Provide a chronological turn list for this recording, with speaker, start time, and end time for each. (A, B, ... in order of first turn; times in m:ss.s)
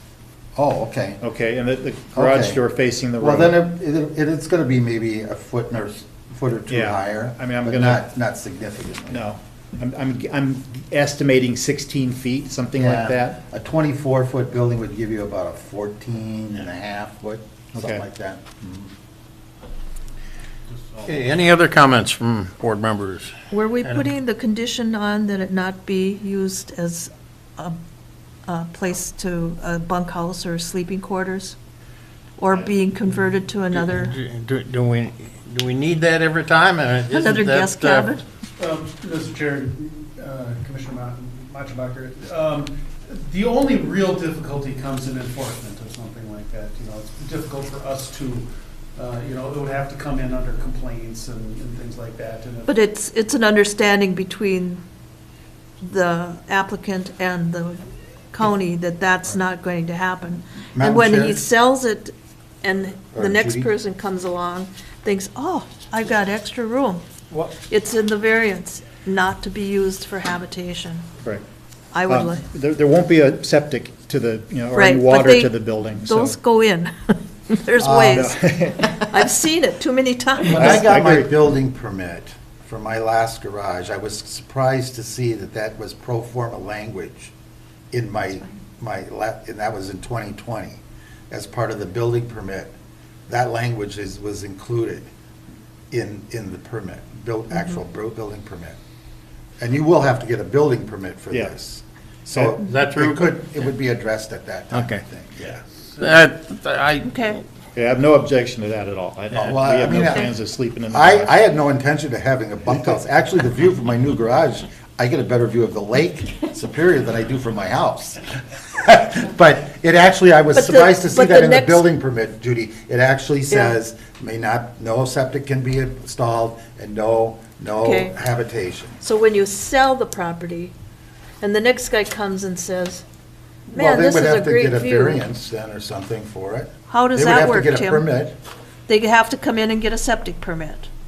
0:00.6-0:01.2 A
0:01.2-0:03.5 B
0:02.1-0:02.6 A
0:03.2-0:09.2 A
0:06.7-0:08.0 B
0:09.1-0:13.4 B
0:12.8-0:19.0 A
0:17.8-0:18.0 B
0:21.0-0:23.3 C
0:23.5-0:27.8 D
0:28.5-0:31.6 D
0:32.4-0:34.2 D
0:33.7-0:38.1 C
0:37.1-0:38.2 D
0:38.6-0:52.7 E
0:52.7-0:54.8 D
0:55.8-1:07.0 D
1:00.8-1:01.5 A
1:03.1-1:03.7 A
1:07.6-1:11.1 D
1:11.9-1:12.4 D
1:12.1-1:16.4 B
1:14.7-1:18.4 D
1:17.8-1:18.3 A
1:18.1-1:19.0 B
1:19.0-1:20.8 D
1:20.4-1:27.3 A
1:20.5-1:21.3 B
1:27.9-1:32.7 A
1:33.3-1:35.1 A
1:35.9-1:38.8 A
1:39.6-1:45.6 A
1:42.3-1:42.6 B
1:42.6-1:43.3 C
1:44.7-1:45.0 C
1:46.0-1:47.1 C
1:47.0-1:47.4 D
1:47.8-1:51.3 B
1:49.3-1:50.3 A
1:50.9-1:58.2 A
1:58.7-2:09.0 A
2:00.6-2:01.8 D
2:07.8-2:08.1 D
2:09.0-2:10.7 D
2:11.4-2:13.0 D
2:13.7-2:18.3 A
2:13.7-2:15.2 D
2:16.9-2:18.1 D
2:18.9-2:20.9 D